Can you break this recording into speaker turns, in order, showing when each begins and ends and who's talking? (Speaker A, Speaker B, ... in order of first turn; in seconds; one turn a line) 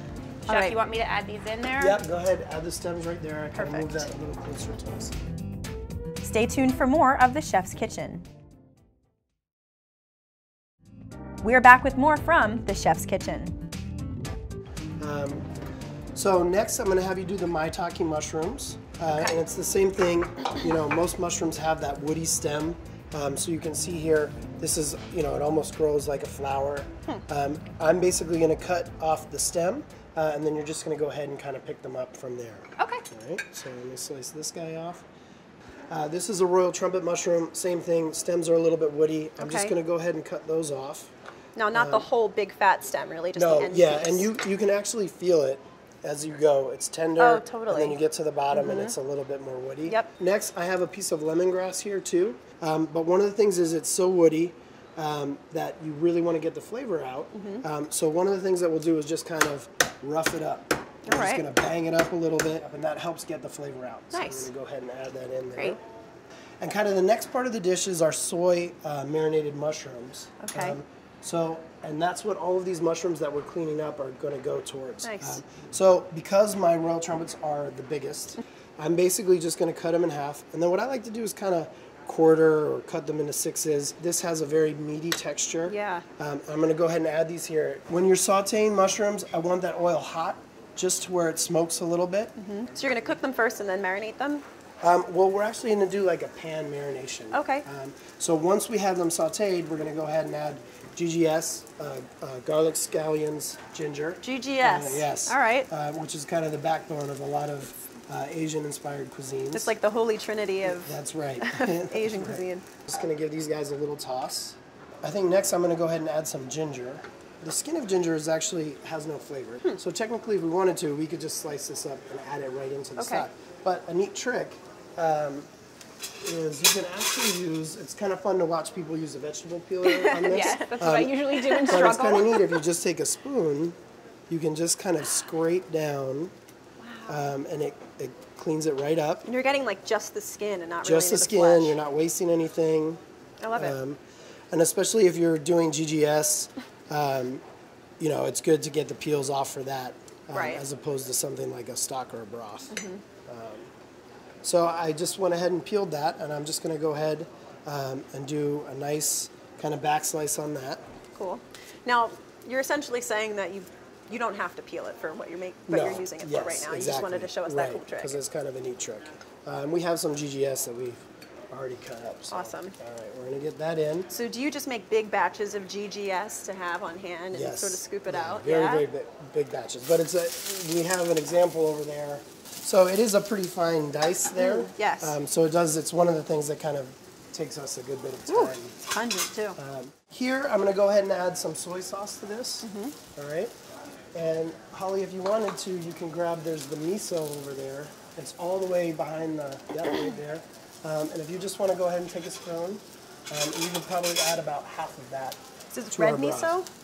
Speaker A: 0.5-2.0
Speaker B: 0.5-0.8
Speaker C: 1.8-5.2
Speaker B: 3.6-4.1
Speaker B: 6.2-8.3
Speaker B: 11.4-13.6
Speaker C: 15.0-15.5
Speaker C: 16.1-35.0
Speaker A: 32.8-33.0
Speaker C: 35.9-41.1
Speaker B: 39.4-39.8
Speaker B: 41.6-44.3
Speaker C: 41.7-42.1
Speaker C: 43.4-65.8
Speaker B: 47.2-48.0
Speaker B: 48.5-48.9
Speaker B: 57.3-57.6
Speaker B: 61.0-61.5
Speaker B: 64.1-64.5
Speaker C: 66.6-92.3
Speaker B: 70.4-70.8
Speaker B: 75.0-75.4
Speaker B: 85.7-86.0
Speaker B: 92.4-94.5
Speaker C: 94.8-109.8
Speaker B: 97.3-97.7
Speaker B: 104.2-105.7
Speaker B: 109.5-112.7
Speaker C: 110.7-125.5
Speaker B: 123.0-123.3
Speaker C: 126.2-133.8
Speaker B: 129.8-131.8
Speaker A: 130.2-132.5
Speaker C: 134.3-136.3
Speaker B: 136.8-137.2
Speaker C: 137.1-139.3
Speaker B: 139.3-141.8
Speaker C: 140.8-143.0
Speaker B: 143.4-143.8
Speaker C: 143.6-144.0
Speaker C: 144.5-147.4
Speaker C: 148.0-152.8
Speaker B: 150.3-150.6
Speaker B: 152.7-153.0
Speaker C: 153.3-153.7
Speaker C: 154.4-160.8
Speaker B: 161.2-168.2
Speaker C: 165.7-174.1
Speaker B: 172.3-172.8
Speaker B: 174.1-178.9
Speaker C: 177.3-188.8
Speaker B: 184.4-185.1
Speaker B: 188.3-189.6
Speaker C: 189.6-193.5
Speaker B: 192.6-193.0
Speaker C: 194.1-205.4
Speaker B: 205.7-206.7
Speaker C: 205.9-206.6